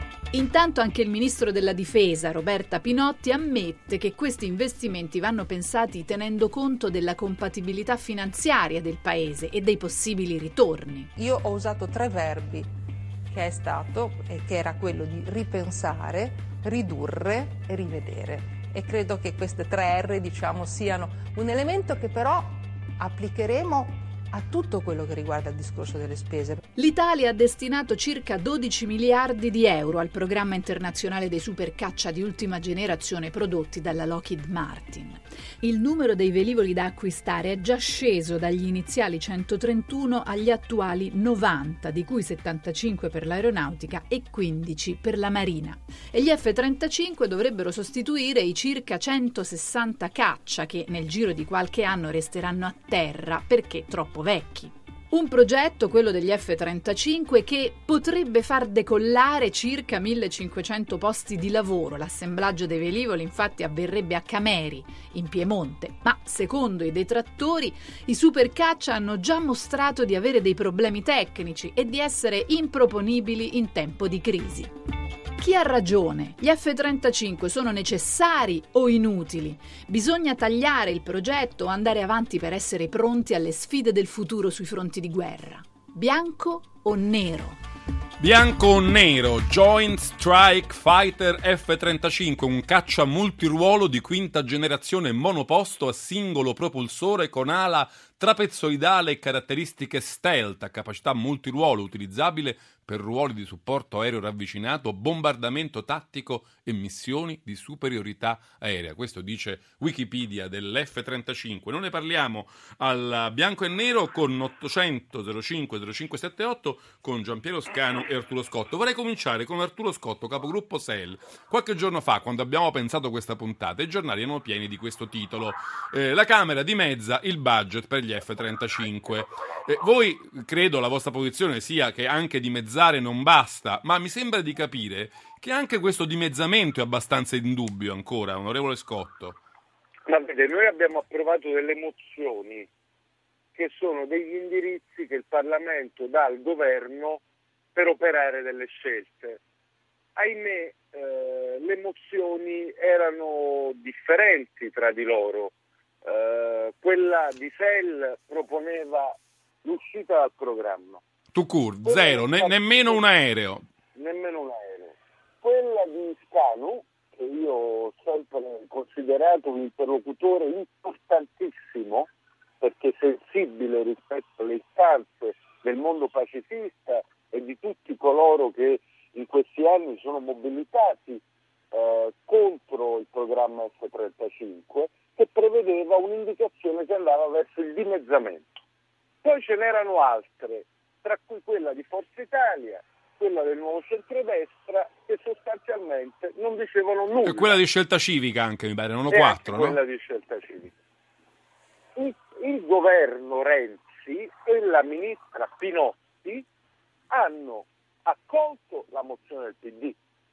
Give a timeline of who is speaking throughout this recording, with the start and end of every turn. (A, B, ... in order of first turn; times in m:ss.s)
0:00.3-0:11.1 A
0:11.2-0:12.7 B
0:13.3-0:26.6 B
0:26.8-1:14.7 A
1:15.4-1:27.6 A
1:28.2-2:19.4 C
2:20.0-2:22.7 D
2:23.5-2:27.2 D
2:27.7-2:29.4 D
2:30.2-2:35.5 D
2:36.0-2:41.0 D
2:41.3-2:43.6 C
2:41.8-2:43.0 D
2:43.9-2:52.1 D
2:52.6-3:08.6 D
3:09.2-3:17.5 D
3:17.2-3:19.8 C
3:19.1-3:20.7 D
3:22.0-3:26.4 D
3:27.1-3:30.0 D